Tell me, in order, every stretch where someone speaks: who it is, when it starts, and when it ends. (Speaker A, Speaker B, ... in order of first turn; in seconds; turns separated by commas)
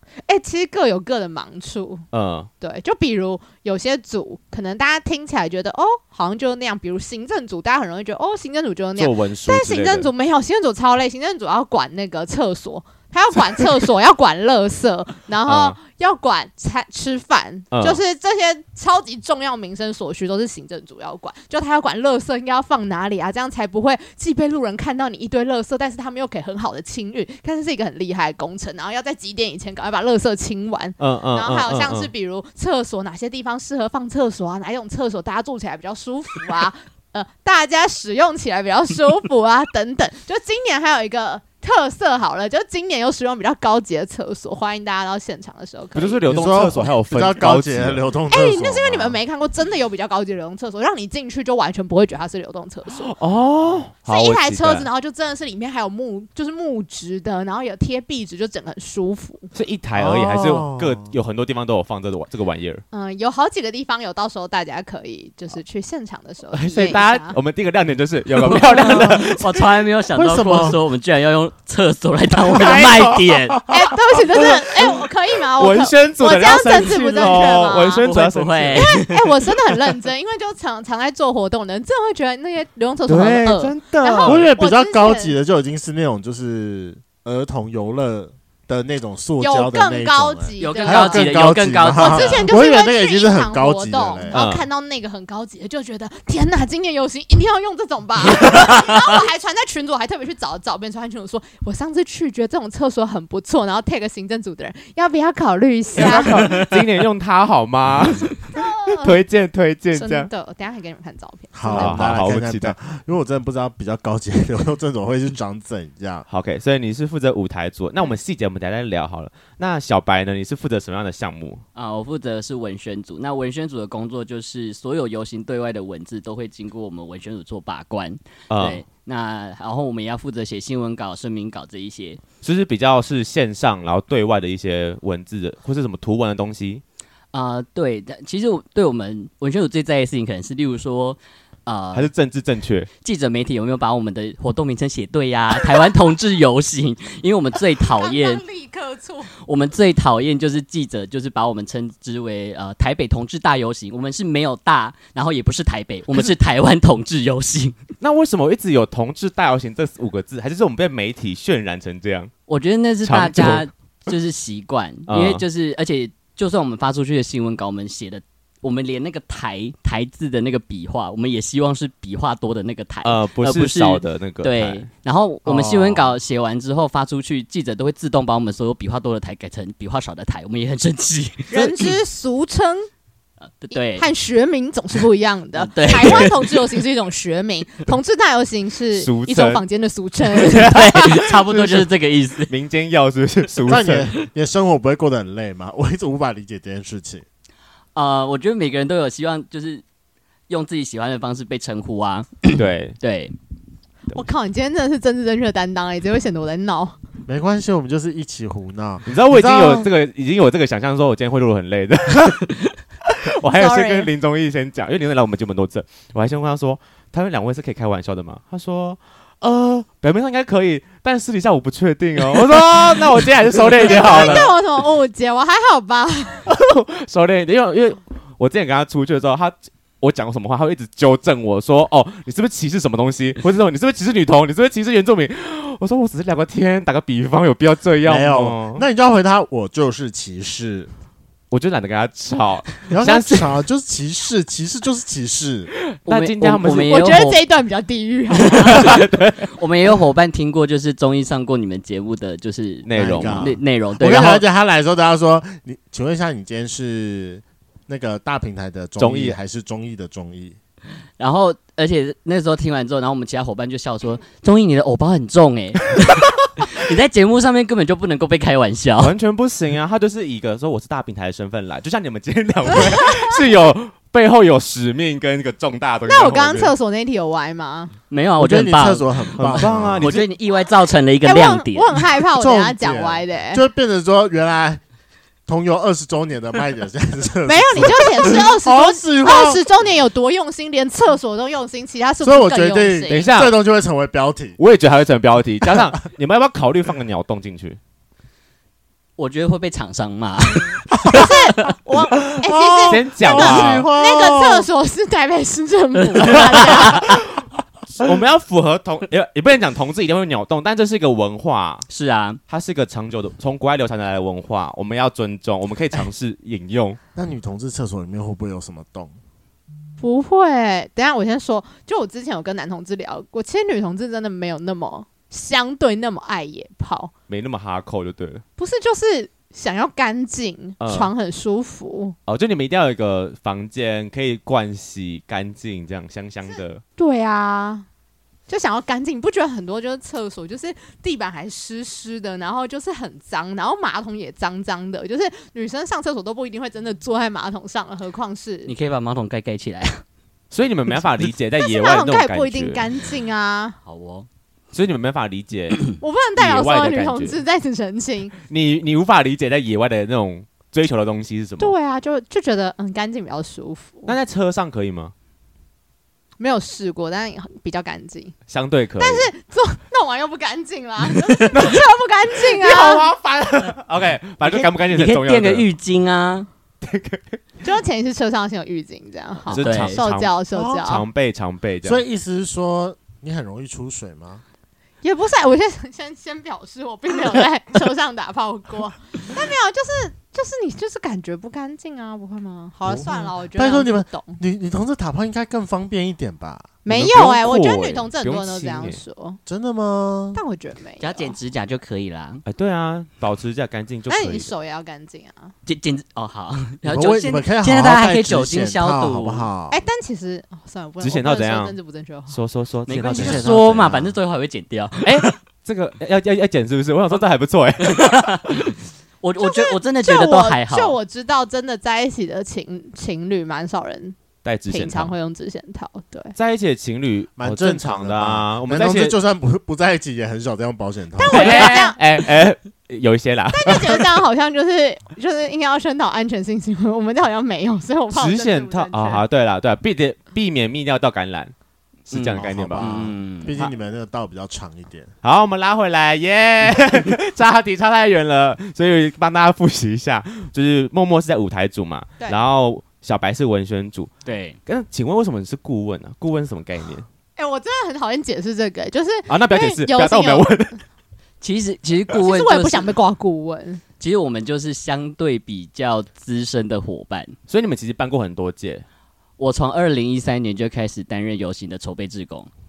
Speaker A: 0.2-2.0, Speaker B: 2.1-2.5, Speaker A: 2.6-46.2, Speaker B: 8.9-10.1, Speaker B: 15.4-15.8, Speaker B: 17.7-18.0, Speaker B: 31.0-32.1, Speaker B: 45.9-48.0, Speaker C: 46.3-49.2, Speaker A: 48.3-53.1, Speaker B: 52.9-54.9, Speaker A: 54.0-59.5, Speaker B: 59.5-62.8, Speaker C: 60.0-61.1, Speaker A: 62.9-67.4, Speaker B: 66.5-69.6, Speaker D: 68.4-73.7, Speaker C: 68.8-69.1, Speaker C: 70.1-70.8, Speaker B: 72.5-73.8, Speaker A: 73.7-78.0, Speaker B: 74.4-74.8, Speaker B: 75.6-78.9, Speaker D: 78.0-79.3, Speaker A: 78.8-85.3, Speaker B: 83.1-84.5, Speaker C: 84.2-94.4, Speaker A: 89.4-91.2, Speaker D: 90.6-92.5, Speaker A: 92.0-106.7, Speaker B: 94.3-94.6, Speaker B: 105.9-110.3, Speaker D: 106.4-106.7, Speaker A: 108.5-109.2, Speaker A: 109.9-112.2, Speaker C: 111.5-116.2, Speaker B: 111.7-112.7, Speaker B: 116.3-121.6, Speaker D: 121.8-132.2, Speaker B: 128.5-128.8, Speaker B: 132.4-136.8, Speaker D: 137.3-142.1, Speaker B: 141.9-142.9, Speaker D: 143.0-148.4, Speaker A: 147.8-149.3, Speaker D: 149.4-157.8, Speaker B: 158.0-162.3, Speaker D: 162.5-181.9, Speaker B: 163.0-163.6, Speaker B: 165.1-165.4, Speaker B: 173.0-174.9, Speaker B: 175.4-176.1, Speaker A: 181.5-182.9, Speaker D: 183.6-184.1, Speaker A: 183.7-191.3, Speaker D: 185.5-186.6, Speaker B: 185.8-186.3, Speaker B: 188.9-189.6, Speaker D: 190.5-192.5, Speaker B: 192.5-194.1, Speaker C: 193.7-197.2, Speaker D: 197.9-199.8, Speaker D: 200.5-203.3, Speaker B: 202.5-202.9, Speaker A: 204.1-206.9, Speaker C: 207.3-209.9, Speaker B: 209.1-212.5, Speaker B: 213.1-224.5, Speaker A: 213.5-214.1, Speaker A: 223.8-226.4, Speaker B: 226.5-238.8, Speaker C: 238.1-240.9, Speaker B: 241.5-243.6, Speaker C: 242.9-245.7, Speaker B: 246.0-247.0, Speaker D: 246.1-247.4, Speaker A: 246.9-249.0, Speaker D: 248.5-254.4, Speaker B: 248.7-249.4, Speaker B: 252.8-253.5, Speaker C: 252.9-260.6, Speaker B: 259.0-259.4, Speaker D: 261.2-269.1, Speaker B: 269.0-276.7, Speaker A: 276.1-277.9, Speaker D: 278.1-282.0, Speaker C: 278.4-280.2, Speaker B: 279.4-280.2, Speaker A: 281.2-283.6, Speaker C: 282.3-284.8, Speaker C: 285.5-289.6, Speaker A: 287.4-293.3, Speaker C: 292.2-294.6, Speaker B: 293.1-293.6, Speaker B: 294.6-297.8, Speaker D: 299.2-301.3, Speaker A: 301.1-307.2, Speaker C: 302.4-304.7, Speaker B: 302.9-303.9, Speaker B: 307.9-311.8, Speaker D: 311.9-312.4, Speaker B: 312.5-317.0, Speaker C: 317.1-319.1, Speaker A: 320.0-327.1, Speaker B: 327.3-328.4, Speaker A: 328.6-332.1, Speaker B: 330.8-331.1, Speaker B: 332.3-336.8, Speaker A: 336.5-337.9, Speaker A: 338.5-348.7, Speaker D: 348.6-350.0, Speaker B: 350.5-352.9, Speaker A: 351.6-353.8, Speaker D: 353.9-354.3, Speaker B: 354.7-357.4, Speaker A: 356.0-358.3, Speaker B: 358.5-361.7, Speaker A: 361.6-364.1, Speaker B: 364.1-365.1, Speaker A: 366.4-368.4, Speaker B: 368.5-369.3, Speaker A: 369.0-373.1, Speaker B: 371.5-371.8, Speaker B: 372.5-375.6, Speaker D: 374.4-376.5, Speaker B: 376.8-377.4, Speaker A: 377.6-381.0, Speaker D: 379.5-380.0, Speaker B: 379.5-382.0, Speaker C: 380.5-380.9, Speaker C: 381.8-384.4, Speaker A: 385.0-394.4, Speaker C: 392.9-396.8, Speaker A: 396.8-399.4, Speaker B: 396.9-399.0, Speaker C: 399.4-400.4, Speaker A: 400.3-401.3, Speaker D: 401.0-402.4, Speaker B: 402.4-404.5, Speaker A: 404.1-405.5, Speaker D: 405.6-409.5, Speaker C: 406.8-409.8, Speaker A: 409.7-412.4, Speaker B: 411.0-411.8, Speaker B: 412.3-414.1, Speaker D: 412.9-415.4, Speaker C: 413.1-414.1, Speaker B: 415.0-418.4, Speaker D: 417.8-421.0, Speaker A: 419.4-424.1, Speaker B: 424.4-425.1, Speaker A: 424.7-426.3, Speaker B: 426.3-429.1, Speaker C: 427.4-431.8, Speaker A: 431.1-432.0, Speaker B: 431.3-434.1, Speaker A: 433.5-439.2, Speaker B: 438.1-441.5, Speaker B: 442.1-443.7, Speaker D: 442.1-443.5, Speaker C: 442.4-445.1, Speaker B: 445.2-454.1, Speaker D: 454.2-454.6, Speaker B: 454.6-457.1, Speaker A: 457.4-460.6, Speaker B: 459.3-460.8, Speaker D: 461.4-462.9, Speaker A: 462.2-463.8, Speaker D: 464.0-467.4, Speaker B: 467.5-468.8, Speaker D: 469.4-472.5